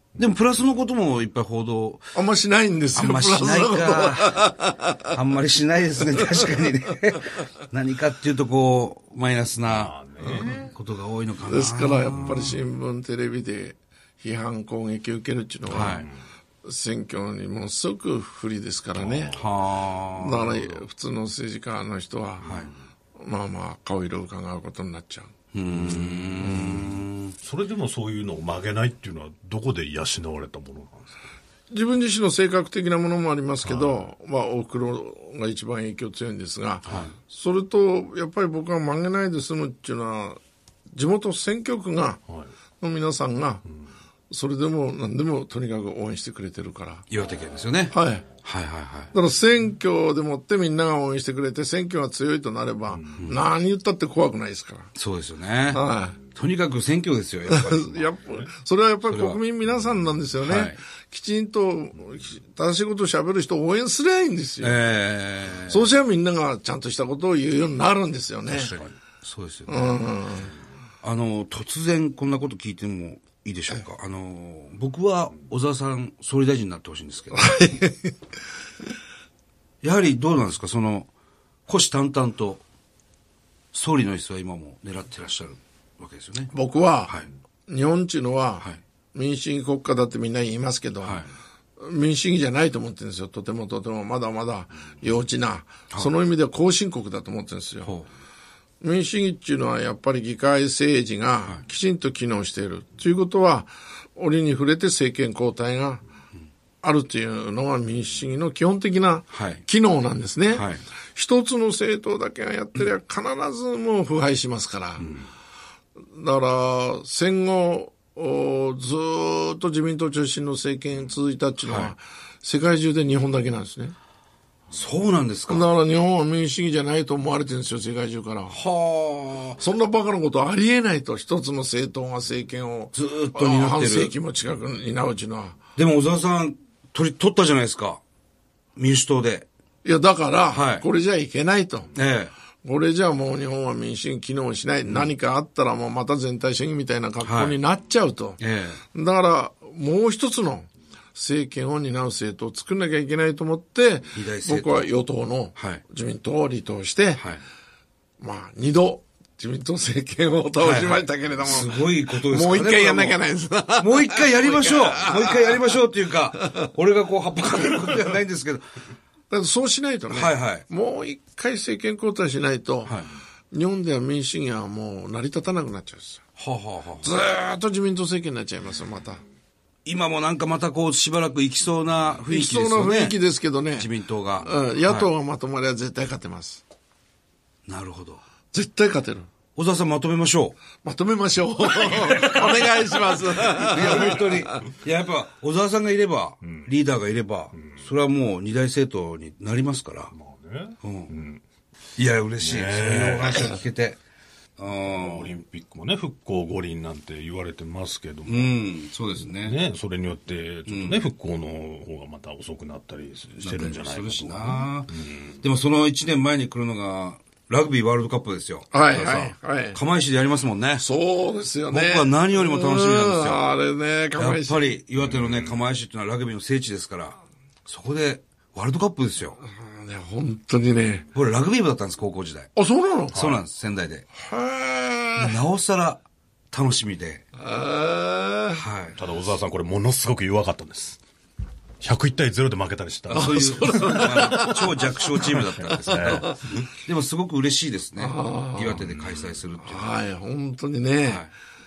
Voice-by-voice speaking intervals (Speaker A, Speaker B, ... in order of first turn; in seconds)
Speaker A: 0.1-2.1, 2.9-4.5, 5.1-12.6, 15.7-16.1, 19.3-20.8, 22.4-22.7, 25.5-27.4, 36.9-37.1, 47.1-49.1, 54.9-55.8, 56.3-58.1, 59.1-59.4, 60.4-60.8, 64.6-65.9, 68.5-70.1, 71.0-77.6, 79.8-81.1, 81.7-82.6, 83.7-86.5, 91.0-91.3, 97.8-98.1, 109.3-109.6, 110.5-110.8, 121.6-121.9, 124.7-125.7, 128.5-129.6, 132.9-134.1, 135.8-138.0, 138.8-139.5, 140.5-140.8, 141.9-142.3, 144.8-145.1, 147.2-147.6, 148.4-148.8, 154.1-154.9, 155.6-155.8, 160.6-163.2, 163.8-168.7, 170.1-170.7, 172.8-173.1, 176.3-177.2, 179.8-183.2, 183.8-185.1, 187.7-188.2, 189.6-190.6, 191.6-200.1, 200.8-201.1, 202.0-204.0, 204.6-205.3, 208.3-209.6, 210.7-211.1, 213.4-220.8, 221.7-223.4, 224.2-229.4, 231.1-232.5, 233.1-234.1, 235.2-237.2, 238.6-239.0, 243.1-249.9, 251.1-251.3
Speaker B: 2.1-5.0, 11.4-16.0, 16.6-19.3, 20.2-22.5, 23.2-25.3, 26.4-26.8, 31.7-40.4, 40.9-42.2, 42.8-43.6, 44.3-47.0, 47.9-48.2, 49.1-54.9, 55.7-56.2, 57.5-64.8, 65.7-68.7, 69.7-70.5, 77.3-78.2, 86.5-87.1, 87.7-91.2, 91.8-97.9, 98.8-106.0, 106.8-115.1, 116.1-123.9, 125.5-128.6, 129.6-135.6, 139.8-141.9, 142.7-148.4, 148.9-157.2, 158.2-165.7, 169.3-172.9, 173.5-176.2, 177.0-179.2, 182.3-183.9, 184.4-186.6, 188.5-189.3, 190.8-194.6, 218.7-219.8, 220.8-224.6, 229.4-231.1, 232.6-233.1, 234.2-235.4, 237.4-238.6, 243.1-246.3, 248.0-248.8, 249.6-251.2
Speaker C: 9.7-10.6, 15.8-16.1, 19.0-19.4, 22.4-22.7, 25.7-31.1, 33.6-34.0, 196.4-196.7, 200.1-201.4, 202.4-203.5, 204.9-208.6, 209.3-215.3, 225.2-225.4, 233.1-233.4, 238.9-241.0, 241.8-244.6, 245.8-246.7, 248.8-249.2